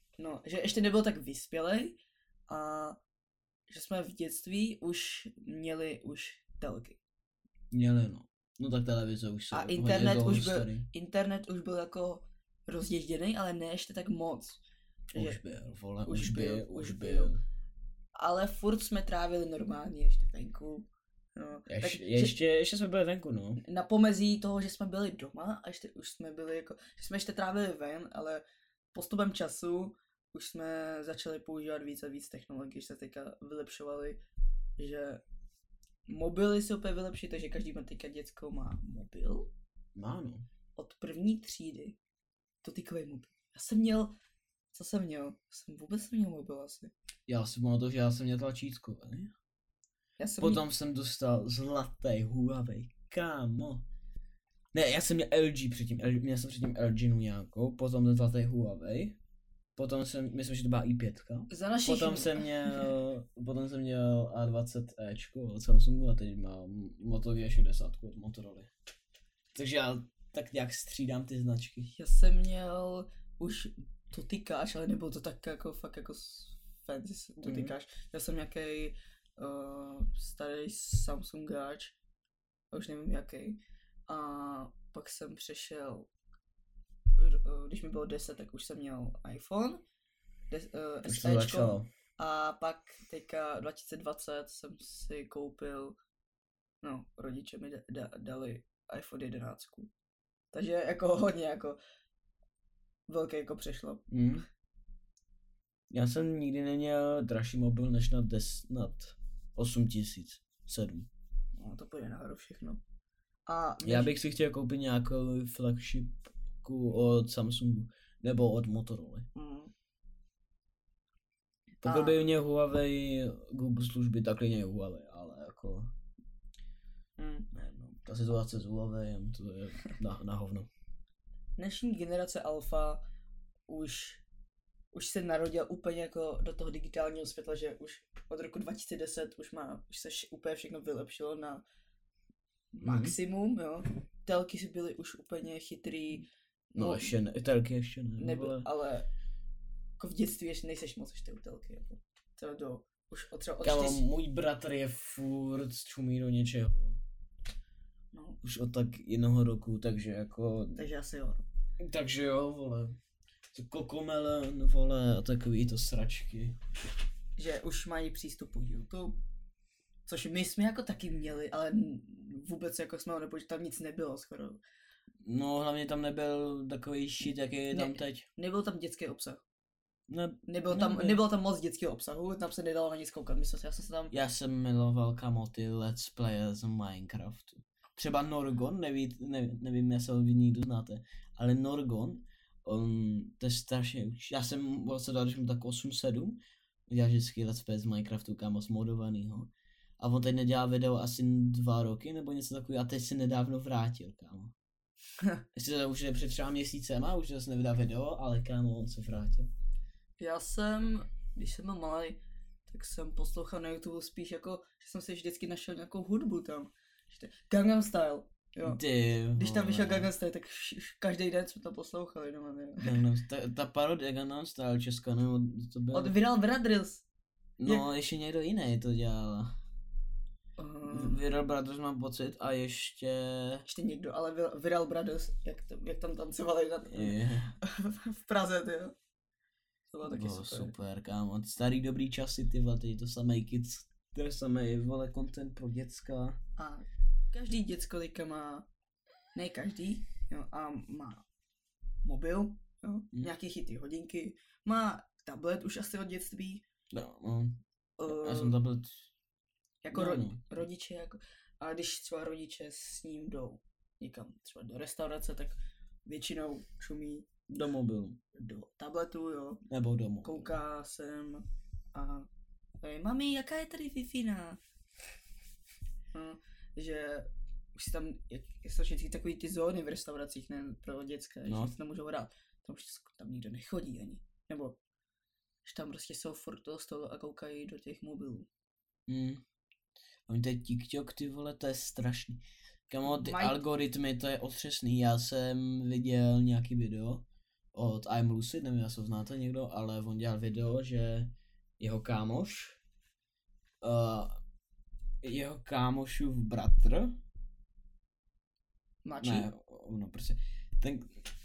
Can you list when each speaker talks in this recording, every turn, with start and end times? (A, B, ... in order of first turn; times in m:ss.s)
0:00.2-0:02.0 A
0:02.5-0:03.0 A
0:03.7-0:07.0 A
0:07.7-0:10.9 B
0:09.5-0:14.6 A
0:15.1-0:17.4 B
0:15.1-0:15.4 A
0:16.0-0:17.3 A
0:18.1-0:22.4 A
0:21.7-0:23.6 B
0:23.6-0:34.2 A
0:34.8-0:35.2 A
0:36.1-0:39.5 A
0:40.0-0:40.4 B
0:40.8-0:42.0 A
0:42.6-0:44.1 A
0:44.7-0:46.9 A
0:47.3-0:49.3 B
0:50.2-0:50.6 A
0:50.4-0:53.8 B
0:54.7-0:59.2 B
0:59.8-1:08.7 B
1:01.5-1:02.9 A
1:09.5-1:11.9 B
1:11.9-1:22.0 A
1:17.4-1:17.7 B
1:22.7-1:26.1 A
1:27.2-1:29.8 A
1:30.5-1:36.0 A
1:31.0-1:31.9 B
1:36.8-1:39.9 A
1:40.5-1:41.8 A
1:43.1-1:44.1 A
1:44.1-1:44.4 B
1:45.9-1:51.1 B
1:51.6-1:52.8 A
1:53.5-1:54.2 A
1:53.8-1:59.3 B
1:59.4-1:59.7 A
2:01.8-2:05.9 B
2:01.8-2:02.3 A
2:07.2-2:07.5 A
2:07.5-2:10.7 B
2:11.6-2:13.0 A
2:13.7-2:14.2 A
2:14.9-2:21.6 A
2:22.7-2:27.1 A
2:22.8-2:23.1 B
2:26.8-2:28.7 B
2:28.2-2:29.1 A
2:30.0-2:34.0 A
2:33.6-2:37.0 B
2:38.1-2:38.4 A
2:38.4-2:40.8 B
2:40.8-2:41.4 A
2:41.8-2:43.0 B
2:43.5-2:46.6 B
2:47.4-2:49.2 A
2:50.1-2:54.6 A
2:55.2-2:58.2 B
2:57.7-2:59.4 A
3:00.1-3:01.2 B
3:00.5-3:04.1 A
3:04.1-3:24.5 B
3:25.5-3:29.5 B
3:30.2-3:38.8 A
3:38.6-3:40.1 B
3:39.4-3:43.0 A
3:42.8-3:46.1 B
3:45.9-3:47.0 A
3:47.6-3:49.5 B
3:50.6-3:51.2 A
3:50.9-3:53.6 B
3:53.7-3:59.0 A
3:56.9-3:57.5 B
3:59.9-4:00.7 A
4:00.0-4:06.4 B
4:06.6-4:08.6 A
4:09.4-4:11.2 A
4:12.0-4:16.6 A
4:16.9-4:19.0 B
4:18.0-4:18.6 A
4:19.8-4:27.6 A
4:19.9-4:20.4 B
4:27.5-4:28.2 B
4:28.3-4:29.6 A
4:29.7-4:30.6 B
4:30.2-4:32.3 A
4:32.8-4:34.6 A
4:36.1-4:44.8 A
4:41.5-4:41.7 B
4:45.6-4:48.5 A
4:49.1-4:49.4 B
4:50.3-5:02.8 B
4:53.0-4:53.6 A
5:03.8-5:04.4 B
5:05.2-5:07.2 B
5:09.0-5:09.5 A
5:09.2-5:11.3 B